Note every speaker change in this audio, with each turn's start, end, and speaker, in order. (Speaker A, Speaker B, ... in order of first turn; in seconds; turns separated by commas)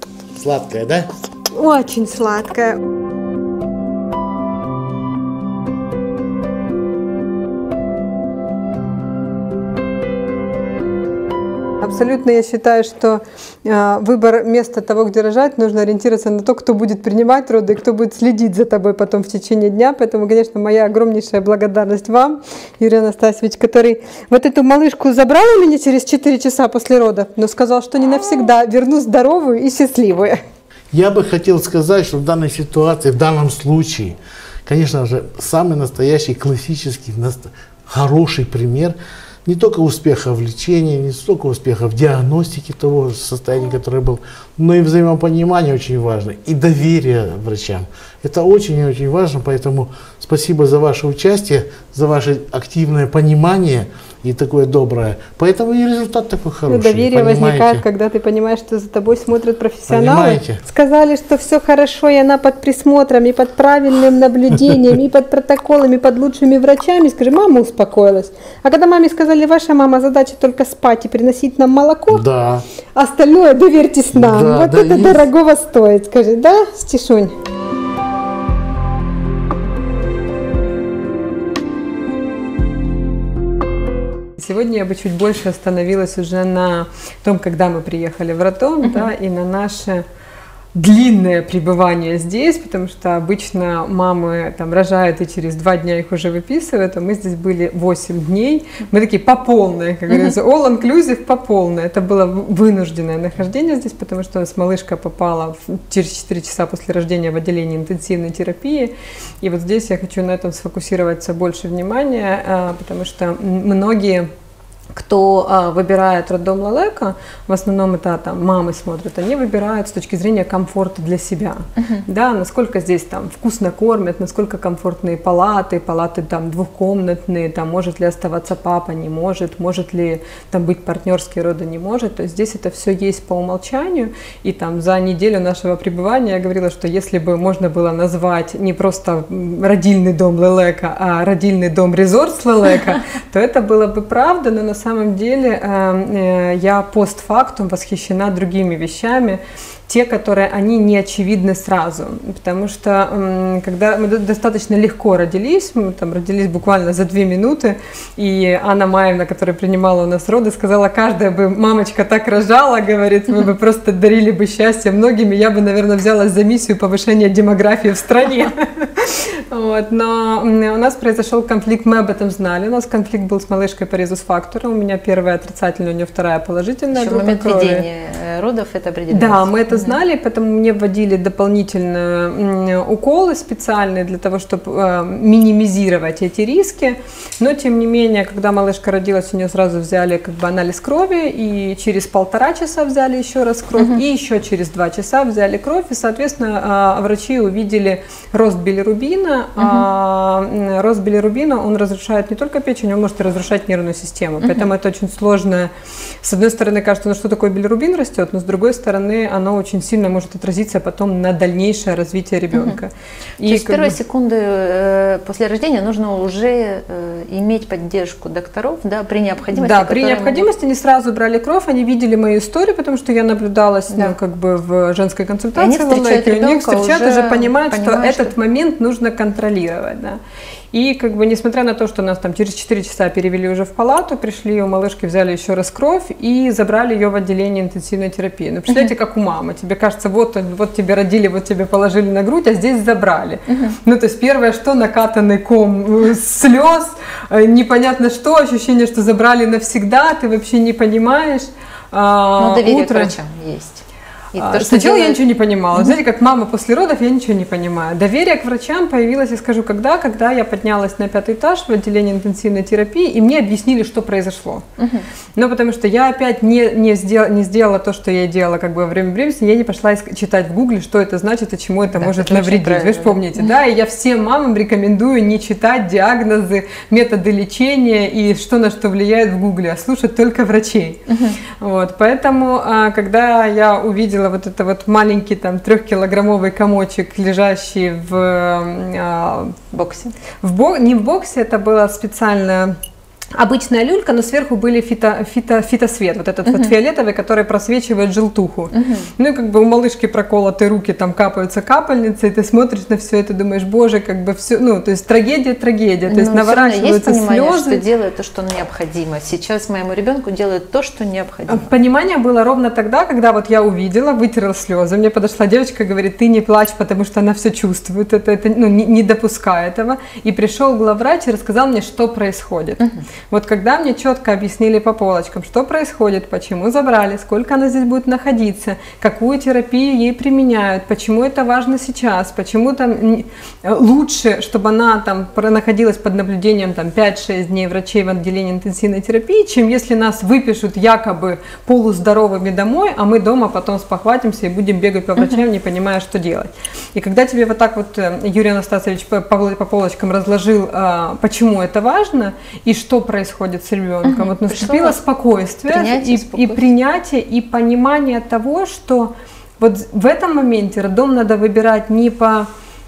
Speaker A: 0.3-1.1, Speaker B: 1.5-2.8, Speaker B: 11.8-30.4, Speaker A: 30.9-57.8, Speaker B: 56.6-72.2, Speaker A: 59.9-60.6, Speaker A: 72.1-72.6, Speaker B: 72.9-77.3, Speaker A: 74.1-75.2, Speaker B: 84.4-90.0, Speaker B: 90.7-114.3, Speaker B: 114.9-177.8, Speaker C: 176.9-180.0, Speaker B: 179.1-205.7, Speaker C: 199.6-199.9, Speaker C: 204.4-204.7, Speaker B: 206.2-214.0, Speaker C: 213.4-220.5, Speaker B: 219.5-230.2, Speaker C: 223.9-224.2, Speaker C: 225.5-228.3, Speaker B: 230.7-253.1, Speaker C: 243.5-243.8, Speaker C: 252.4-255.2, Speaker B: 254.4-264.6, Speaker C: 264.8-265.0, Speaker B: 265.3-281.0, Speaker C: 271.9-273.4, Speaker C: 281.1-281.4, Speaker B: 281.6-289.6, Speaker C: 289.7-290.1, Speaker B: 290.4-292.8, Speaker B: 293.3-307.8, Speaker C: 296.4-296.7, Speaker C: 298.7-299.1, Speaker C: 306.1-311.7, Speaker B: 311.5-362.5, Speaker C: 354.0-355.0, Speaker C: 355.7-356.7